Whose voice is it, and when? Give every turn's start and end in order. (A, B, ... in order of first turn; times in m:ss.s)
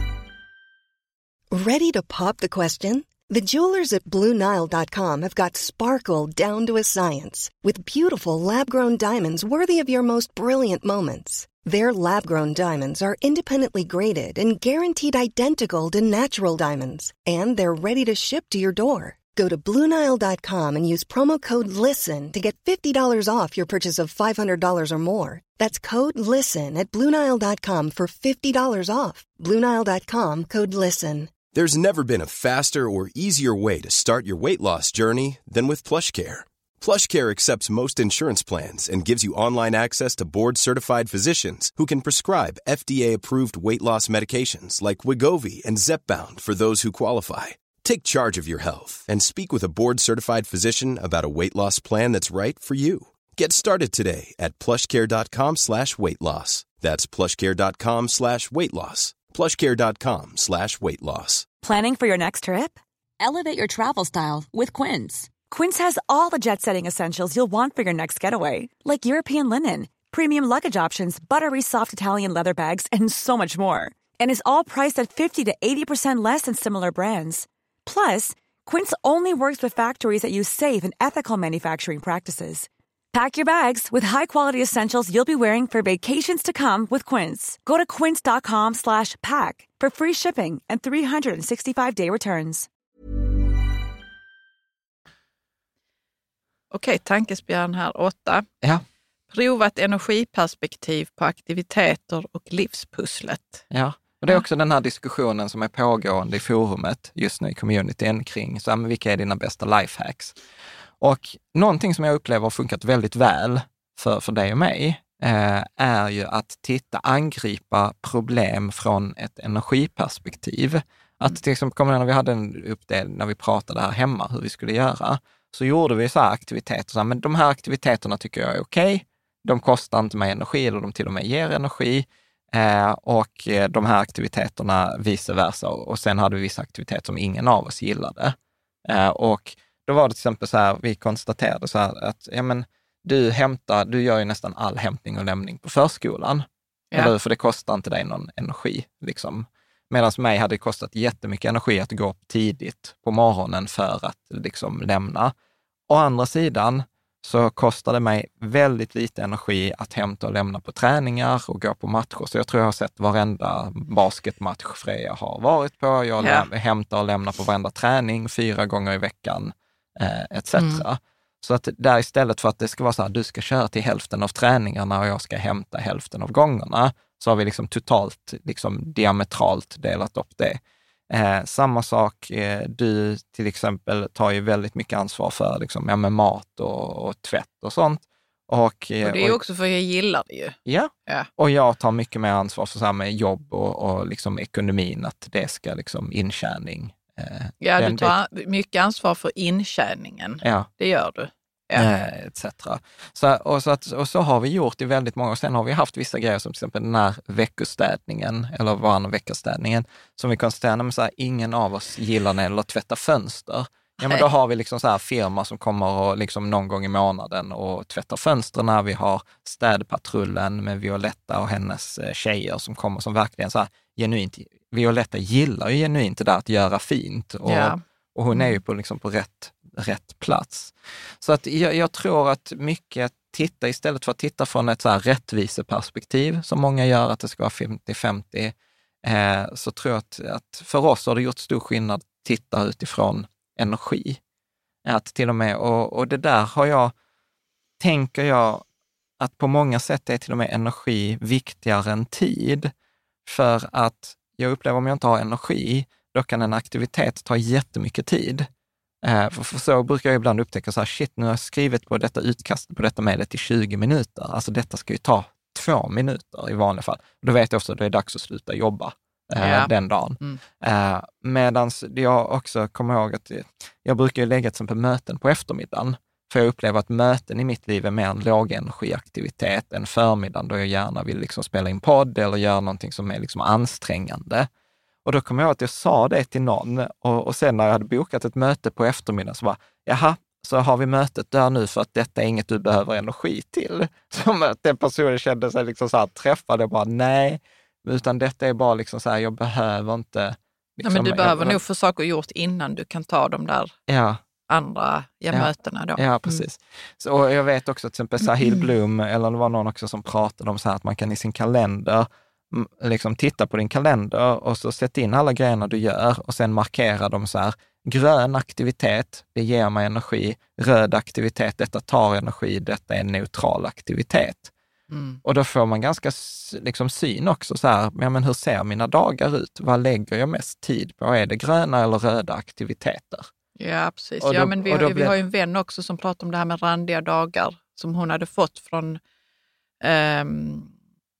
0:01.5-0:31.3 A
0:31.5-1:01.5 B
1:01.6-1:32.7 C
1:36.7-1:38.5 D
1:39.3-1:43.6 D
1:43.7-1:50.4 E
1:51.0-2:18.4 E
2:18.9-2:35.3 E
2:35.9-3:09.4 E
2:46.2-2:46.5 D
2:50.6-2:50.8 D
3:09.0-3:11.3 D
3:10.7-3:18.2 E
3:17.6-3:21.9 D
3:20.4-3:20.7 E
3:21.8-4:04.2 E
3:47.5-3:47.8 D
3:48.3-3:48.6 D
4:04.8-4:06.9 E
4:07.8-4:08.6 E
4:09.2-4:12.7 E
4:13.3-4:18.5 E
4:19.0-4:44.5 E
4:29.4-4:30.4 D
4:45.0-5:01.6 E
5:00.8-5:03.7 D
5:03.9-5:04.2 E
5:04.5-5:06.4 D
5:05.3-5:24.5 E
5:08.2-5:08.7 D
5:24.9-5:25.2 D
5:25.2-5:33.3 E
5:33.6-5:39.0 D
5:34.2-5:35.1 E
5:39.8-5:40.7 D